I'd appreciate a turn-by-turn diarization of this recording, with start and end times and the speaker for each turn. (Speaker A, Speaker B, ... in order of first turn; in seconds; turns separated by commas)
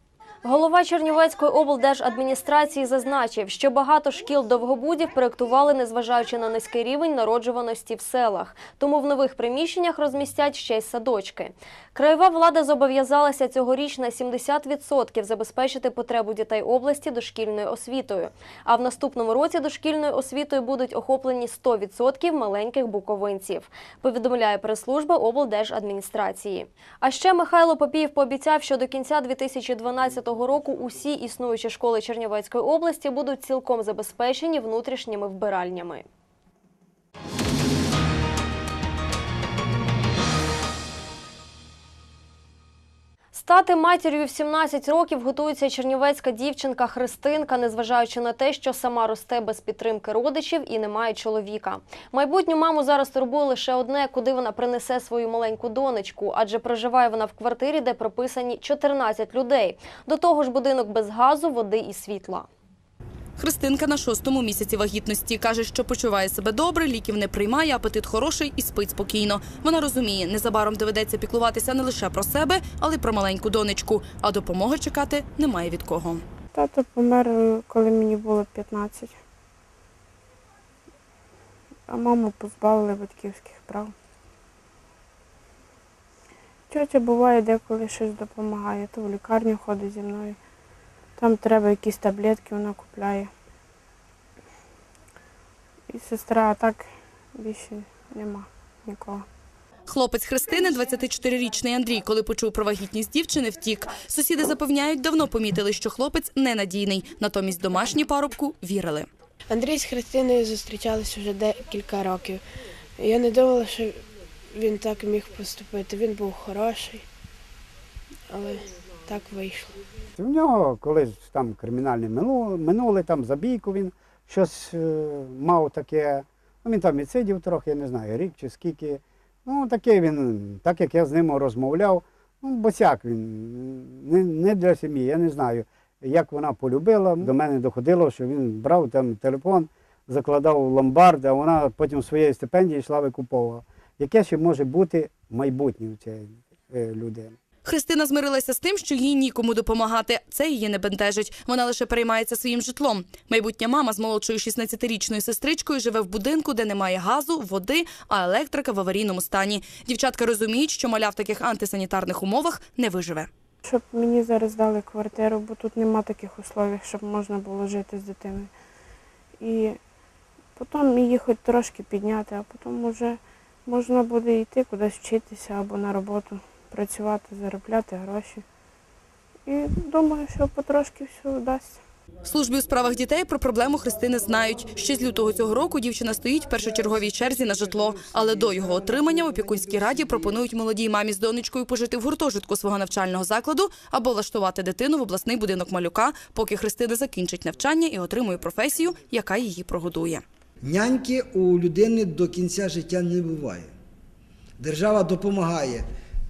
Speaker A: 0.4-36.1, Speaker A: 43.3-62.5, Speaker B: 63.4-76.2, Speaker C: 76.5-79.2, Speaker C: 81.9-83.9, Speaker C: 86.7-90.4, Speaker C: 91.2-93.3, Speaker C: 95.9-99.2, Speaker B: 99.9-109.1, Speaker D: 109.5-112.4, Speaker D: 113.0-114.0, Speaker D: 114.5-117.0, Speaker D: 118.3-119.8, Speaker E: 120.2-147.3, Speaker B: 147.6-163.3, Speaker C: 163.6-168.5, Speaker C: 169.4-169.8, Speaker C: 170.6-178.4, Speaker C: 179.4-181.8, Speaker B: 182.2-200.2, Speaker F: 200.6-203.7, Speaker F: 204.6-205.9